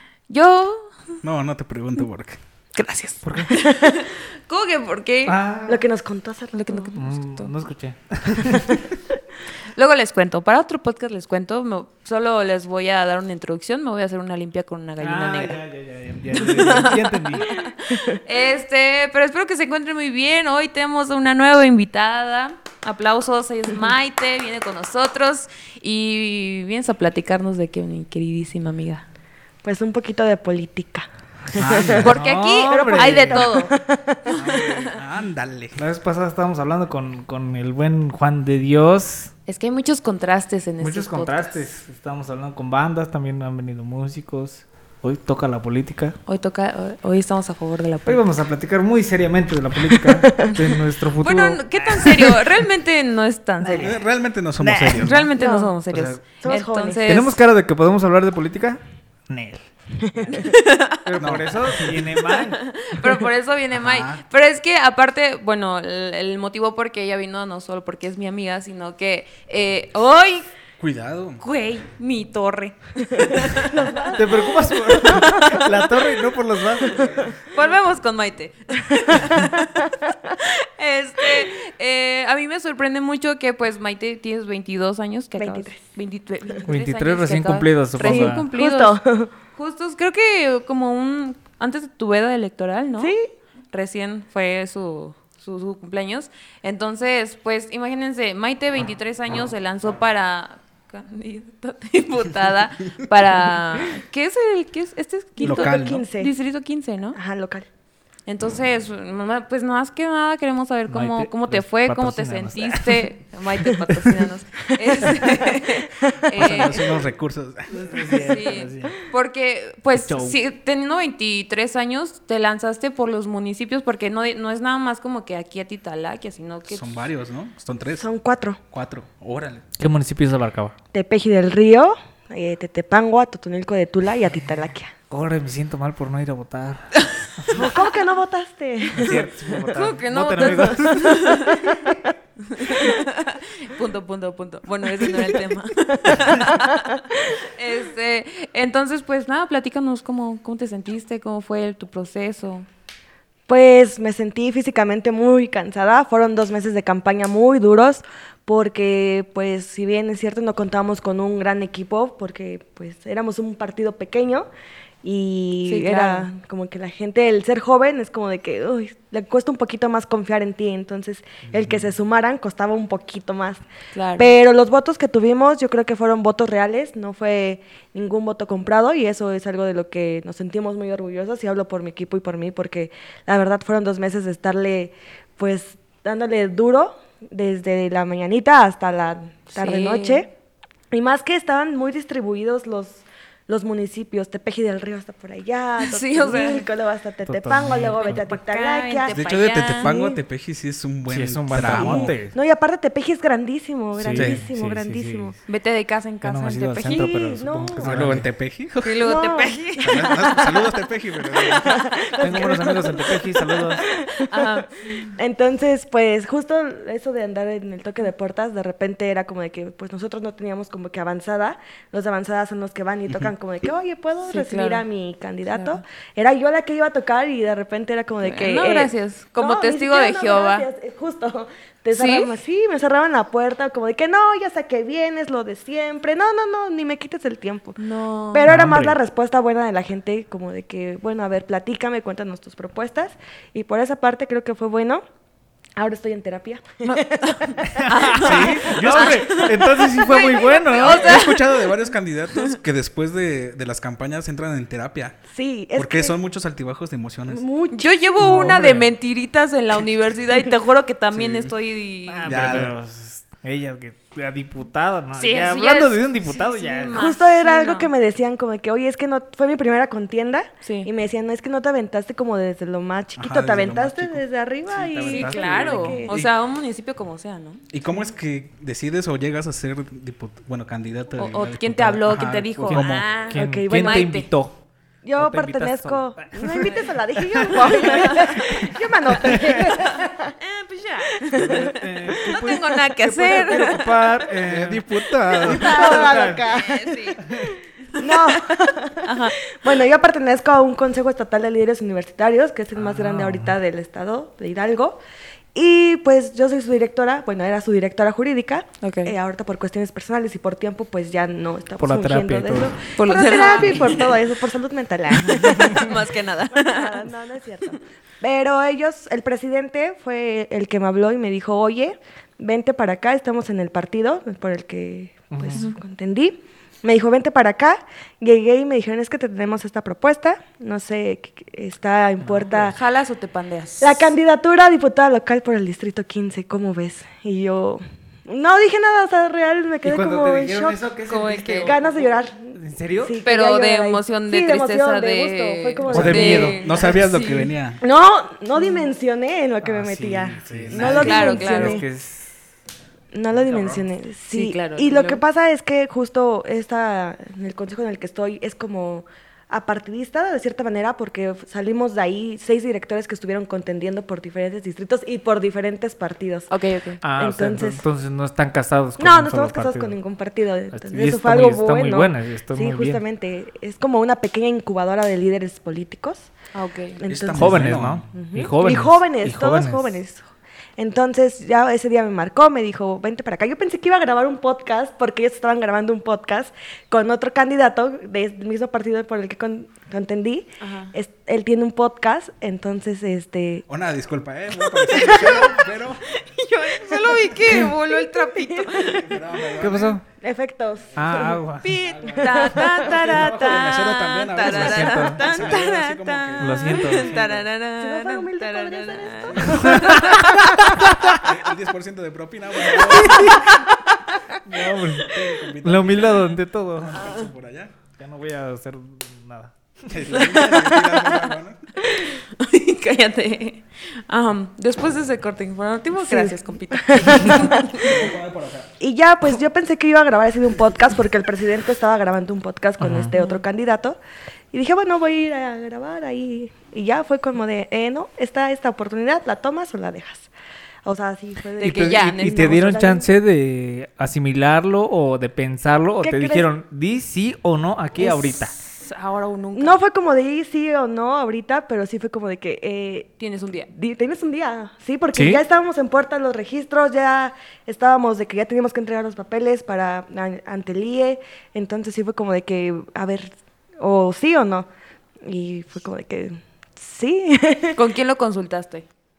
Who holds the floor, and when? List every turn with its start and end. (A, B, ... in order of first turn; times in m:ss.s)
0:00.3-0:00.9 A
0:01.2-0:02.4 B
0:02.8-0:05.4 A
0:03.2-0:03.7 C
0:03.4-0:04.0 D
0:05.2-0:05.8 C
0:05.7-0:07.0 D
0:06.7-0:07.5 A
0:06.9-0:08.8 C
0:08.4-0:08.9 D
0:09.7-0:15.6 A
0:15.0-0:17.6 C
0:16.4-0:29.0 A
0:17.9-0:18.2 D
0:29.6-0:34.4 D
0:31.5-0:33.5 C
0:31.6-0:32.1 B
0:32.0-0:33.7 A
0:34.3-0:35.0 A
0:34.4-0:35.8 B
0:35.8-0:39.3 C
0:39.5-0:41.6 A
0:40.8-0:46.2 C
0:46.3-0:48.2 A
0:48.1-0:52.4 C
0:49.9-0:50.6 D
0:51.2-0:54.0 A
0:53.6-0:54.0 C
0:53.7-0:55.3 B
0:54.6-0:55.3 C
0:55.0-0:57.4 A
0:55.4-0:55.8 D
0:55.9-0:56.2 C
0:56.4-0:57.1 D
0:57.1-1:00.5 C
1:00.1-1:00.5 D
1:00.4-1:01.1 A
1:01.0-1:02.6 C
1:01.2-1:02.2 B
1:02.2-1:10.5 A
1:03.8-1:04.2 B
1:10.8-1:11.4 B
1:11.4-1:14.2 A
1:13.3-1:15.7 D
1:14.1-1:17.3 C
1:17.5-1:19.8 A
1:20.3-1:29.0 A
1:25.4-1:25.8 D
1:26.7-1:28.5 C
1:28.0-1:29.3 D
1:29.6-1:33.2 A
1:33.0-1:33.3 D
1:33.7-1:47.2 A
1:45.4-1:46.3 D
1:45.4-1:46.0 B
1:47.2-1:47.7 D
1:48.3-1:57.0 A
1:50.9-1:54.3 C
1:56.3-1:58.0 B
1:57.7-1:59.0 C
1:58.1-2:06.9 A
2:00.0-2:00.4 C
2:06.7-2:08.1 B
2:08.0-2:08.6 D
2:08.7-2:09.7 B
2:09.8-2:10.8 C
2:10.9-2:14.9 D
2:15.1-2:17.7 C
2:17.5-2:19.8 D
2:18.9-2:21.4 C
2:19.7-2:21.6 A
2:20.5-2:23.0 D
2:22.5-2:32.7 A
2:25.0-2:25.3 D
2:26.1-2:27.0 D
2:33.5-2:44.5 D
2:45.0-2:53.6 D
2:45.7-2:46.3 A
2:51.5-2:51.9 B
2:53.9-2:54.3 A
2:54.2-3:10.3 D
3:09.5-3:10.3 A
3:10.9-3:19.2 D
3:15.8-3:16.7 A
3:17.2-3:18.3 C
3:18.0-3:19.9 A
3:19.1-3:22.1 B
3:19.8-3:20.2 D
3:21.1-3:22.4 C
3:21.7-3:25.4 D
3:23.9-3:25.4 C
3:24.2-3:24.4 B
3:25.5-3:27.1 A
3:26.2-3:28.3 C
3:26.9-3:28.0 D
3:27.8-3:29.1 B
3:28.8-3:30.5 A
3:29.0-3:30.7 D
3:29.8-3:32.0 B
3:31.3-3:57.8 D
3:32.2-3:33.9 C
3:33.8-3:35.2 A
3:44.3-3:44.8 A
3:45.5-3:45.8 A
3:48.2-3:50.7 A
3:51.9-3:52.3 A
3:57.8-3:58.5 A
3:58.3-4:05.0 D
3:58.5-3:59.0 C
4:05.8-4:07.9 D
4:06.8-4:11.7 A
4:07.7-4:11.2 C
4:08.2-4:09.4 B
4:10.7-4:15.2 B
4:15.3-4:16.2 D
4:15.8-4:17.5 B
4:17.3-4:18.6 D
4:17.7-4:22.6 A
4:18.2-4:18.9 C
4:21.2-4:21.5 B
4:22.1-4:27.0 C
4:22.2-4:22.8 B
4:25.2-4:27.9 A
4:26.9-4:36.2 D
4:30.6-4:30.9 A
4:33.2-4:34.2 B
4:34.7-4:36.0 C
4:35.0-4:37.6 A
4:37.7-4:43.1 B
4:41.2-4:44.3 A
4:42.7-4:44.6 C
4:43.3-4:44.2 D
4:45.0-4:50.4 D
4:45.2-4:49.9 C
4:47.7-4:48.5 A
4:50.4-4:54.1 A
4:51.2-4:52.4 D
4:51.3-4:56.4 C
4:54.4-4:56.1 B
4:55.4-5:05.0 D
4:55.9-4:58.2 A
4:57.2-4:57.5 C
4:59.0-4:59.4 A
5:02.8-5:03.6 C
5:05.5-5:32.8 D
5:08.8-5:09.2 A
5:11.8-5:12.8 C
5:13.0-5:14.2 A
5:13.6-5:14.0 C
5:15.3-5:17.1 A
5:25.3-5:25.7 C
5:32.2-5:32.8 C
5:32.7-5:34.1 A
5:33.8-5:40.8 D
5:39.8-5:43.2 C
5:41.1-5:41.8 A
5:41.6-5:46.9 D
5:43.2-5:47.5 A
5:45.9-5:46.6 C
5:45.9-5:47.8 B
5:47.8-5:51.8 D
5:49.6-5:52.3 C
5:50.4-5:51.3 B
5:51.0-5:51.8 A
5:53.1-6:06.5 D
5:53.3-5:53.8 C
5:54.3-5:55.2 A
6:06.5-6:07.0 A
6:07.0-6:10.0 C
6:07.1-6:07.8 D
6:09.0-6:16.3 D
6:10.7-6:13.0 C
6:16.5-6:17.0 A
6:17.0-6:33.6 D
6:17.0-6:18.0 B
6:17.3-6:20.0 C
6:30.6-6:30.9 A
6:33.7-6:36.0 B
6:34.6-6:39.1 A
6:35.1-6:35.6 D
6:37.5-6:39.1 D
6:38.8-6:40.0 B
6:39.6-6:40.0 C
6:40.2-6:41.4 D
6:41.0-6:41.8 C
6:41.6-6:50.4 A
6:41.7-6:47.3 B
6:42.0-6:43.7 D
6:44.4-6:45.2 C
6:46.4-6:47.3 C
6:47.8-6:50.1 D
6:49.4-6:49.8 B
6:49.4-6:51.2 C
6:51.2-6:53.5 B
6:52.7-6:53.7 C
6:54.4-6:57.3 C
6:54.7-6:57.8 B
6:58.0-7:00.1 C
6:59.9-7:01.7 B
7:00.1-7:01.2 A
7:01.8-7:08.0 A
7:06.0-7:08.0 D
7:07.4-7:08.7 B
7:08.8-7:14.0 D
7:12.8-7:13.2 C
7:13.1-7:13.4 A
7:14.5-7:20.3 D
7:20.8-7:23.1 D
7:21.6-7:22.7 A
7:21.6-7:28.5 C
7:26.0-7:26.5 D
7:28.0-7:28.4 D
7:28.8-7:29.8 A
7:29.6-7:33.2 D
7:33.2-7:33.7 A
7:33.7-7:44.7 D
7:35.1-7:35.4 C
7:45.2-7:47.8 D
7:47.8-7:48.9 A